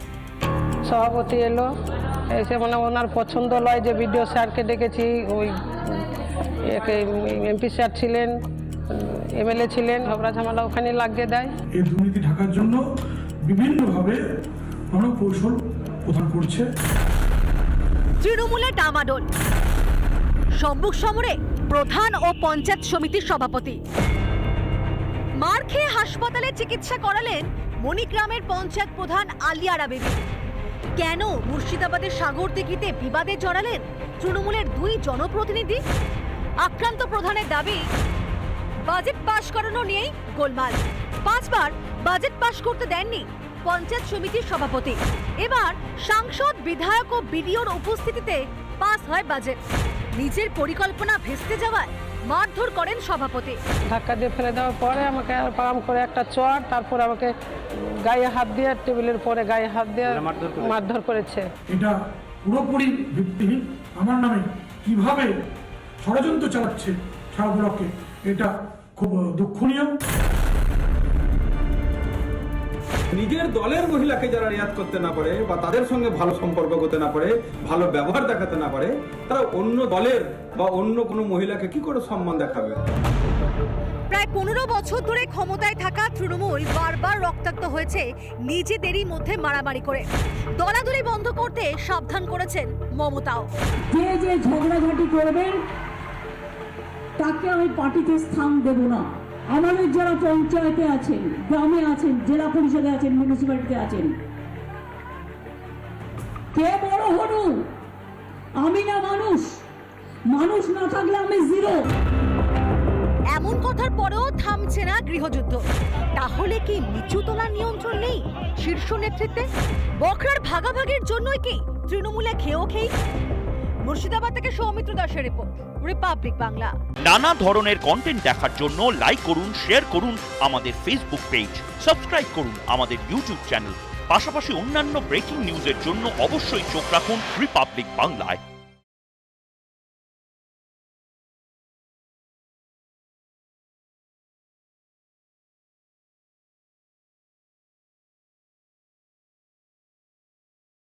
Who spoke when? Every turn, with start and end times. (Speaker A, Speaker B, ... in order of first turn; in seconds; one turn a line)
Speaker A: 0.9-1.7
Speaker A: 2.3-6.1
Speaker A: 6.6-8.4
Speaker A: 8.9-11.5
Speaker B: 11.8-12.8
Speaker B: 13.5-14.2
Speaker B: 14.9-16.6
Speaker C: 18.2-19.3
Speaker C: 20.6-23.8
Speaker C: 25.4-30.2
Speaker C: 31.0-35.8
Speaker C: 36.6-37.8
Speaker C: 38.9-49.6
Speaker C: 50.2-53.6
Speaker A: 53.9-61.5
Speaker B: 61.7-65.3
Speaker B: 66.0-69.9
Speaker D: 73.1-82.8
Speaker C: 84.1-90.1
Speaker C: 90.6-93.5
Speaker E: 93.9-95.6
Speaker E: 97.2-104.2
Speaker E: 106.5-107.7
Speaker E: 108.6-109.6
Speaker E: 110.3-111.8
Speaker C: 113.3-115.6
Speaker C: 116.2-119.5
Speaker C: 120.0-122.9
Speaker C: 123.9-126.7
Speaker F: 127.0-138.4